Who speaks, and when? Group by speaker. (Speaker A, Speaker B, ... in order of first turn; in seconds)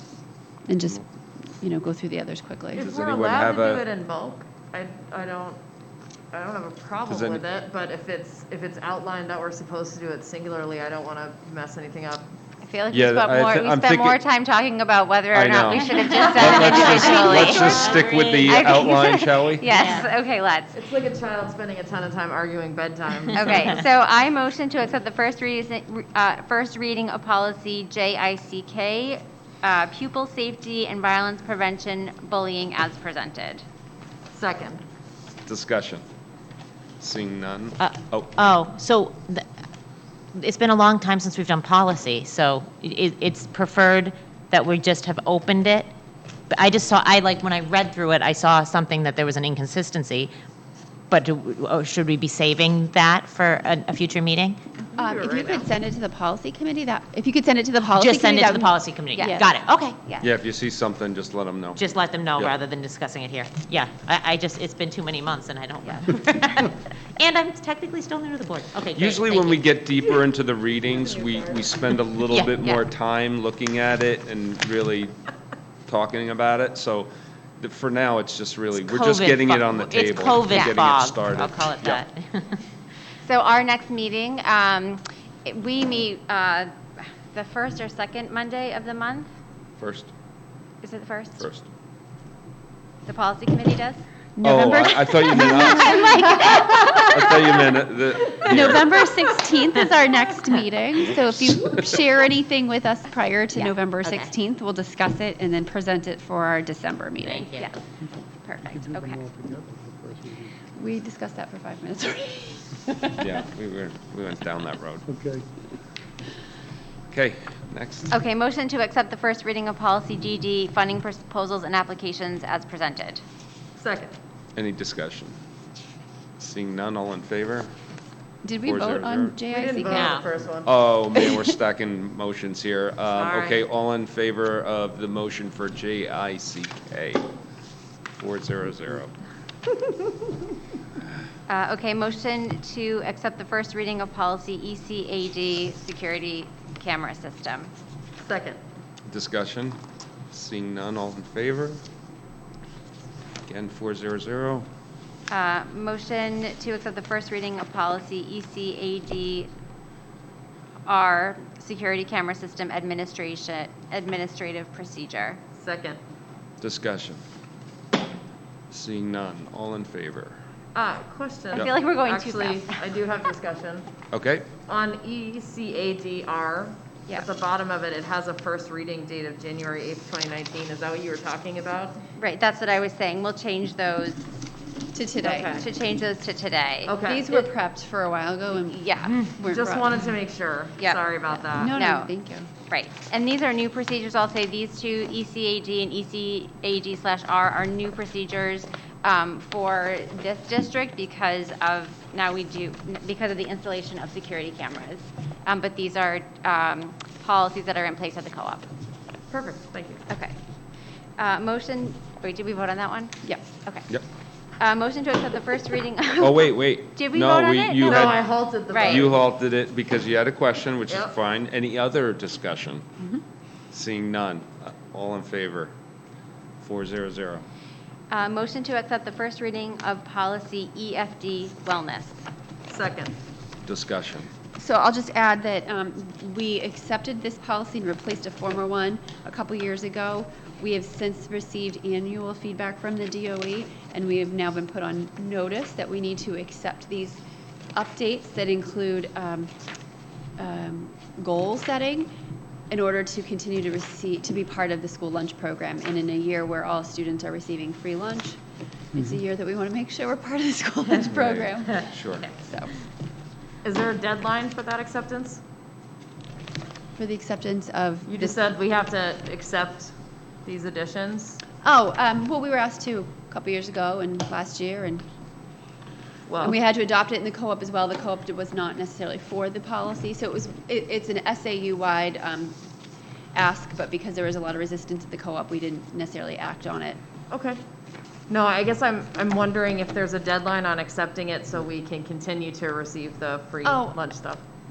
Speaker A: 0.7-1.1, 1.6-2.9, 55.0-59.5, 94.3-97.0, 98.4-107.7, 110.7-113.2, 128.4-130.2, 184.9-185.6, 187.0-190.0, 191.6-192.5, 234.6-247.2, 247.7-249.5, 250.4-252.1, 252.7-258.4, 258.9-262.7, 267.0-268.4, 271.6-275.0, 276.4-282.6, 283.3-287.0, 293.6-294.0
Speaker B: 2.7-5.6, 6.3-12.3, 16.4-18.1, 20.7-23.8, 34.3-34.8, 54.9-55.7, 70.8-71.7, 123.8-124.1, 129.5-130.8, 148.2-148.6, 165.5-166.0, 170.7-173.8, 174.7-182.0, 185.2-185.7, 186.8-187.5, 189.4-191.8, 209.3-210.0, 217.8-219.2, 232.7-233.1, 263.6-265.4, 268.1-269.9, 270.4-271.4, 276.3-276.6, 287.3-287.6, 288.3-294.4
Speaker C: 2.8-3.8, 7.1-7.4, 12.9-14.2, 15.3-19.7, 35.5-36.0, 37.0-38.4, 60.2-61.8, 68.9-75.2, 75.9-82.0, 89.8-90.1, 91.4-91.7, 94.4-96.1, 97.1-99.0, 113.2-115.0, 117.1-118.1, 124.5-125.3, 126.4-127.7, 128.6-129.4, 130.6-137.2, 138.2-139.1, 149.1-149.8, 150.3-151.8, 153.5-154.7, 166.6-167.2, 168.7-170.4, 174.1-174.5, 216.2-218.2, 218.9-222.8, 223.7-225.7, 226.6-227.4, 233.7-234.3, 261.0-262.2
Speaker D: 12.6-20.7, 23.3-33.6, 59.2-59.5, 83.2-89.3, 90.8-91.4, 93.0-94.0, 95.5-97.1, 108.4-109.2, 118.1-123.2, 141.5-147.7, 155.3-159.5, 160.9-165.4, 171.5-172.8, 182.2-184.3, 185.5-187.0, 188.6-189.3, 190.8-192.1, 192.7-208.6, 210.1-210.3, 211.2-213.9, 214.6-218.1, 218.7-219.1, 228.1-232.2
Speaker E: 15.7-18.9, 19.7-20.1, 37.8-39.4, 40.3-45.9, 46.5-50.3, 51.1-54.6, 57.9-60.0, 61.8-69.8, 72.3-72.7, 78.8-82.6, 103.6-104.3, 107.2-107.7, 129.9-130.2, 133.2-133.6
Speaker F: 108.7-110.5, 115.1-115.4